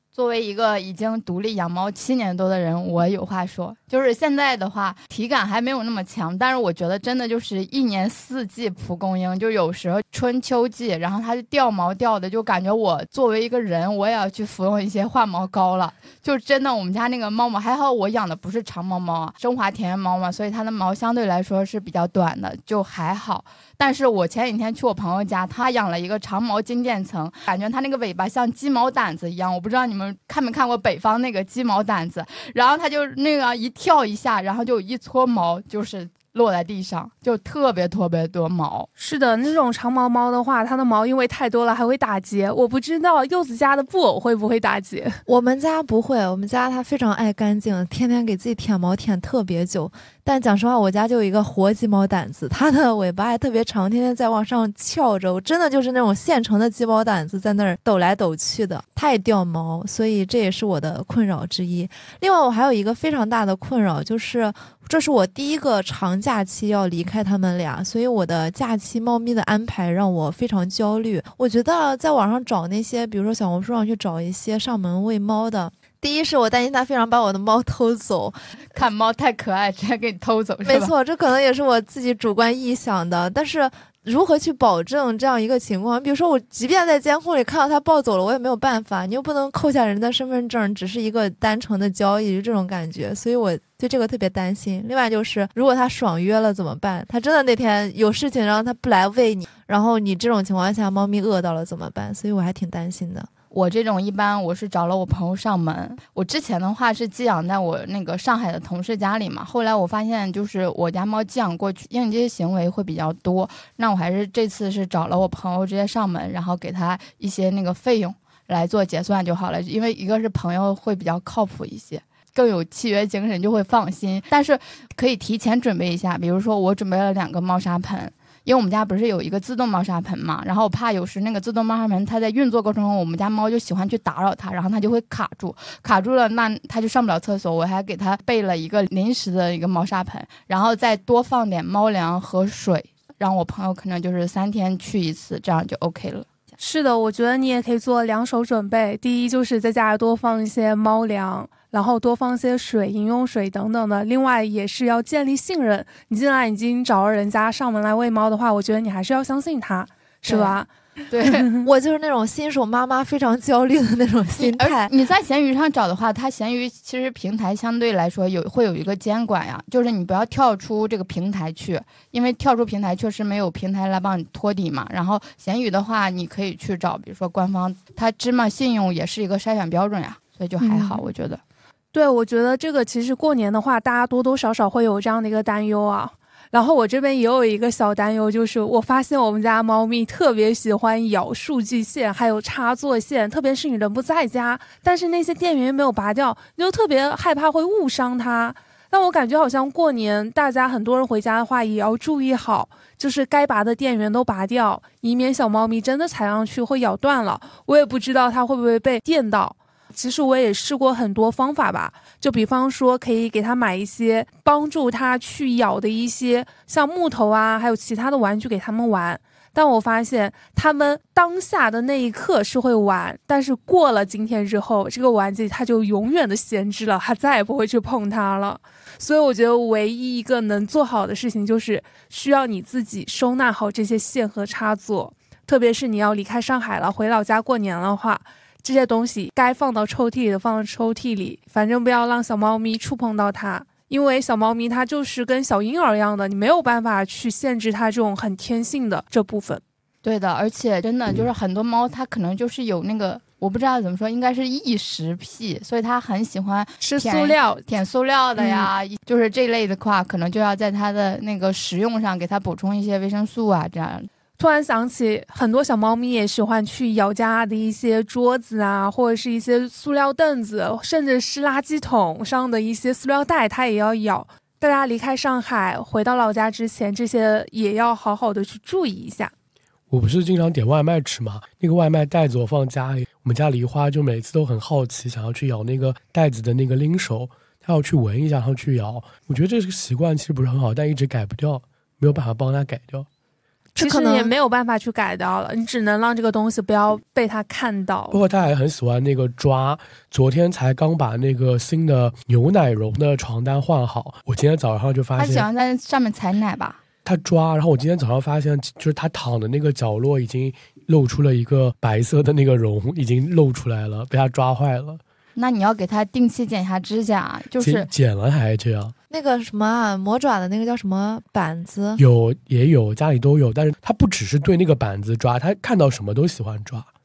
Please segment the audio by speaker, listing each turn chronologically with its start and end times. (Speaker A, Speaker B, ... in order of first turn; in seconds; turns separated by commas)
Speaker A: 0.1-38.9, Speaker B: 39.0-45.2, Speaker C: 45.3-78.3, Speaker A: 78.7-80.9, Speaker C: 80.6-103.3, Speaker A: 103.5-146.3, Speaker B: 146.6-160.7, Speaker A: 160.3-160.6, Speaker A: 161.1-161.5, Speaker B: 161.2-161.7, Speaker C: 161.6-164.9, Speaker A: 164.4-181.4, Speaker B: 180.6-181.0, Speaker B: 181.9-249.6, Speaker A: 250.0-264.1, Speaker B: 256.8-257.7, Speaker B: 258.4-258.7, Speaker B: 264.4-279.3, Speaker D: 279.9-293.1, Speaker C: 293.8-294.3, Speaker B: 293.8-298.2, Speaker D: 298.1-305.5, Speaker A: 305.2-306.8, Speaker D: 307.1-315.0, Speaker A: 315.4-317.9, Speaker D: 317.6-318.9, Speaker C: 319.1-322.0, Speaker D: 322.0-326.9